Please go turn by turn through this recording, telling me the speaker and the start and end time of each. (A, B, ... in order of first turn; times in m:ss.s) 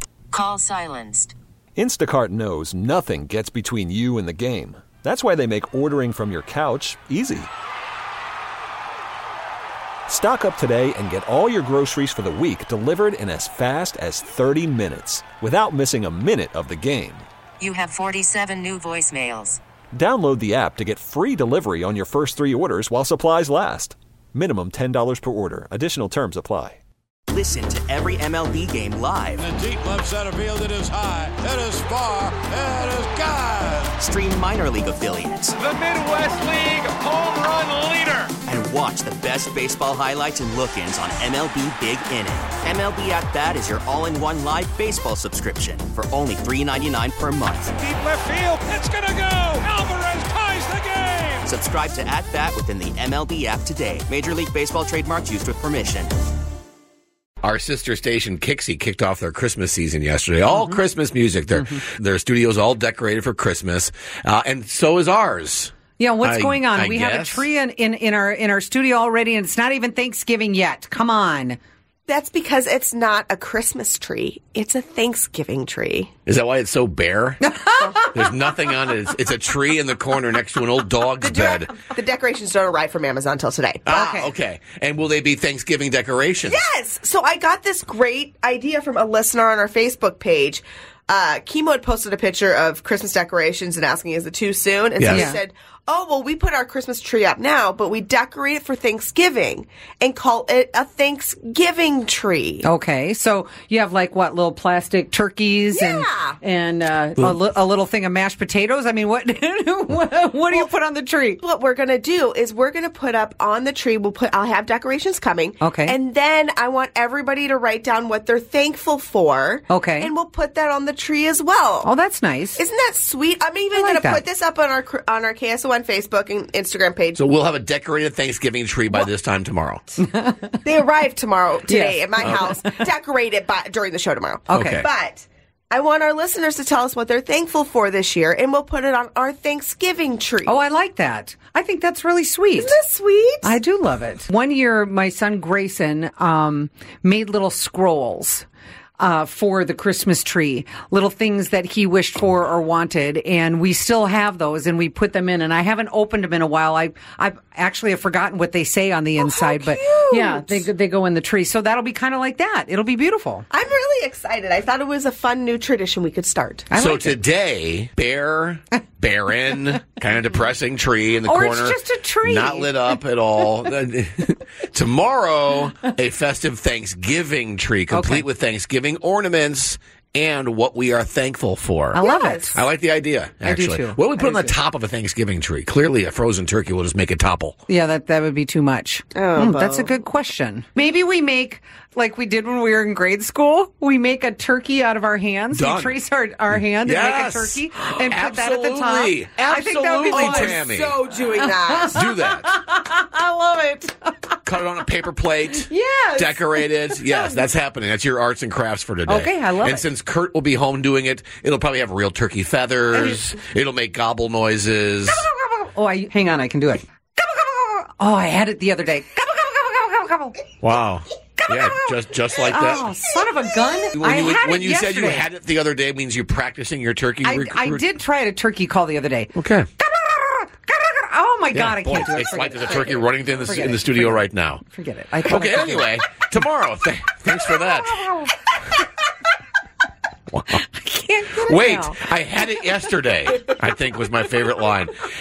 0:00.3-0:01.4 A
0:01.8-0:07.5 B
0:10.1-0:17.3 B
0:17.6-0:19.6 A
0:19.9-0:26.8 B
0:27.3-0:29.5 C
0:29.4-0:33.9 D
0:34.0-0:35.6 C
0:35.6-0:38.3 E
0:38.4-0:47.7 C
0:47.8-0:51.5 E
0:51.4-0:56.1 C
0:57.4-1:07.5 F
1:00.5-1:00.8 G
1:06.0-1:11.6 G
1:12.1-1:16.1 H
1:16.2-1:17.4 F
1:17.4-1:18.1 G
1:18.0-1:21.8 F
1:21.2-1:24.1 H
1:23.8-1:26.6 F
1:23.9-1:24.3 G
1:26.4-1:42.6 H
1:35.0-1:35.3 F
1:35.1-1:35.4 G
1:42.6-1:51.4 G
1:45.7-1:46.4 H
1:51.4-2:01.9 H
1:55.6-1:56.0 G
1:59.7-2:00.1 G
2:01.8-2:02.6 G
2:02.5-2:07.2 H
2:03.7-2:04.2 G
2:07.2-2:09.9 F
2:10.1-2:10.4 G
2:10.6-2:20.6 H
2:11.7-2:12.6 G
2:14.5-2:14.8 G
2:14.5-2:14.8 F
2:20.4-2:22.7 G
2:22.6-2:23.5 H
2:23.4-2:28.4 G
2:29.0-2:43.5 G
2:39.2-2:40.7 H
2:43.5-2:46.7 H
2:46.7-2:47.2 G
2:46.7-3:02.0 F
2:51.2-2:53.0 G
2:57.9-2:58.2 G
3:01.9-3:02.6 G
3:02.0-3:02.6 H
3:02.5-3:07.6 F
3:03.4-3:04.6 G
3:07.7-3:24.4 G
3:09.1-3:09.9 H
3:15.5-3:16.0 F
3:16.6-3:21.0 F
3:20.0-3:22.1 H
3:21.9-3:22.5 F
3:24.4-3:35.2 F
3:25.5-3:27.4 G
3:29.0-3:29.9 G
3:35.1-3:40.4 G
3:40.6-3:42.9 F
3:41.4-3:45.3 G
3:43.9-3:47.8 F
3:47.2-3:56.0 G
3:49.3-3:49.7 F
3:51.5-3:54.6 F
3:55.2-3:58.0 F
3:57.4-3:58.3 G
4:00.3-4:00.6 F
4:00.5-4:02.0 G
4:01.3-4:04.9 F